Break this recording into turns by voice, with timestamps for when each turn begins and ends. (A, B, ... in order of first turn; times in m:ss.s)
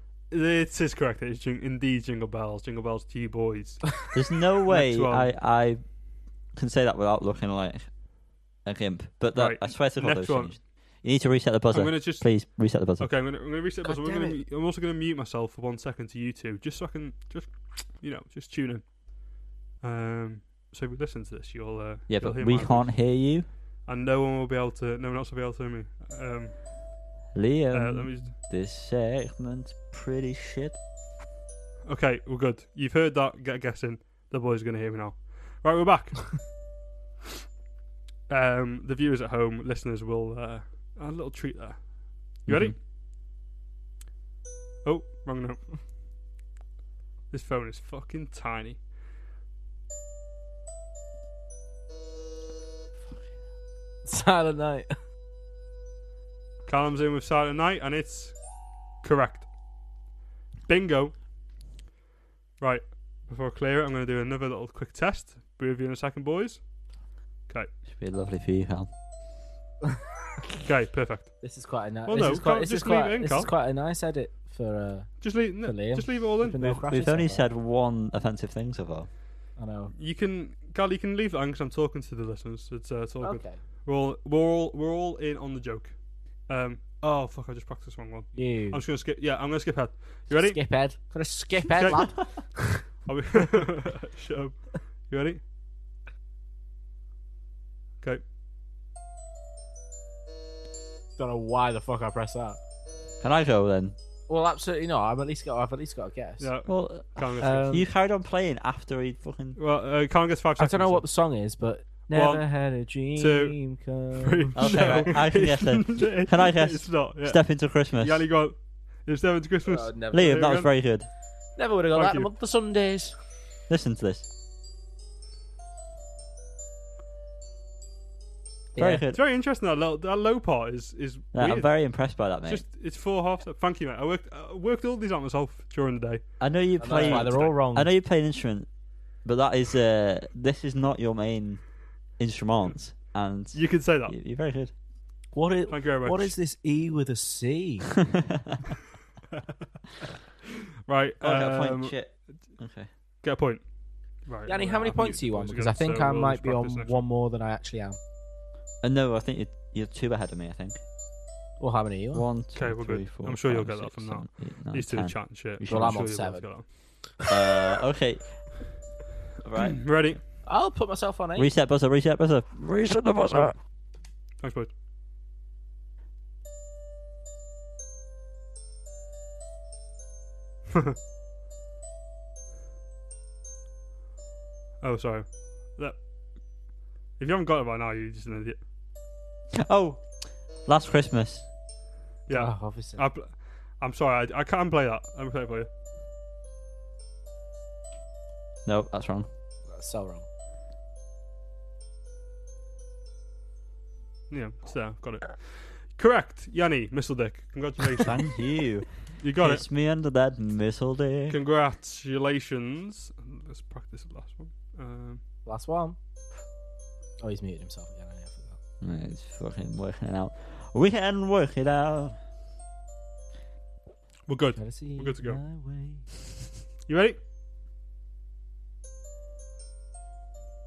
0:00.3-0:04.1 A
0:04.1-0:05.9 B
0:04.7-0:05.3 A
0:06.5-0:07.9 B
0:08.6-0:13.1 B
0:09.4-0:10.6 A
0:11.7-0:19.0 A
0:13.8-0:14.4 C
0:19.8-0:23.1 A
0:22.1-0:23.5 B
0:23.9-0:26.6 A
0:27.3-0:30.8 B
0:27.7-0:28.3 A
0:31.9-0:36.6 A
0:38.3-0:42.8 A
0:42.5-0:42.8 B
0:44.8-0:45.7 A
0:47.3-0:48.8 A
0:54.0-0:54.9 C
0:56.7-0:58.4 A
0:59.0-0:59.5 A
1:00.7-1:01.2 A
1:02.6-1:06.7 A
1:07.9-1:08.9 B
1:10.6-1:11.4 A
1:11.4-1:17.5 C
1:12.1-1:13.5 A
1:15.2-1:16.8 A
1:16.6-1:19.1 B
1:19.6-1:19.9 C
1:19.9-1:30.9 A
1:23.2-1:23.6 C
1:28.3-1:28.8 C
1:30.3-1:32.4 C
1:31.7-1:35.4 A
1:41.2-1:42.6 C
1:43.2-1:44.0 B
1:44.3-1:46.5 C
1:46.4-1:47.8 A
1:46.7-1:49.6 B
1:47.4-1:47.9 C
1:49.6-1:51.0 A
1:50.6-1:55.1 C
1:52.1-2:00.7 A
1:54.6-1:58.3 B
1:59.6-2:00.5 C
2:00.1-2:01.1 B
2:01.6-2:03.2 C
2:02.0-2:02.3 A
2:03.7-2:04.3 B
2:08.8-2:09.0 C
2:08.8-2:09.2 B
2:09.1-2:11.8 A
2:11.3-2:12.6 B
2:12.3-2:17.5 A
2:16.4-2:18.7 B
2:16.8-2:17.9 C
2:19.2-2:24.7 B
2:23.5-2:24.2 A
2:25.3-2:27.9 C
2:25.7-2:26.4 A
2:28.1-2:28.6 B
2:30.9-2:32.2 A
2:31.2-2:32.9 B
2:33.2-2:33.7 A
2:34.2-2:37.0 A
2:34.5-2:38.0 C
2:38.8-2:40.8 B
2:41.6-2:42.2 C
2:42.1-2:46.0 B
2:42.6-2:46.7 A
2:45.7-2:46.5 C
2:47.3-2:48.5 B
2:49.4-2:49.8 B
2:49.6-2:50.2 A
2:50.4-2:51.5 C
2:51.4-2:53.6 B
2:54.4-2:54.7 A
3:04.8-3:06.0 A
3:07.2-3:08.6 A
3:09.5-3:10.1 B
3:10.6-3:11.5 B
3:12.3-3:15.7 A
3:12.3-3:13.0 C
3:18.6-3:19.3 B
3:19.7-3:20.3 C
3:24.3-3:28.3 A
3:28.0-3:31.4 B
3:29.2-3:29.6 A
3:31.3-3:35.2 A
3:35.4-3:36.0 C
3:37.2-3:38.6 C
3:38.8-3:42.2 B
3:44.3-3:45.4 A
3:44.6-3:46.1 C
3:46.9-3:47.2 A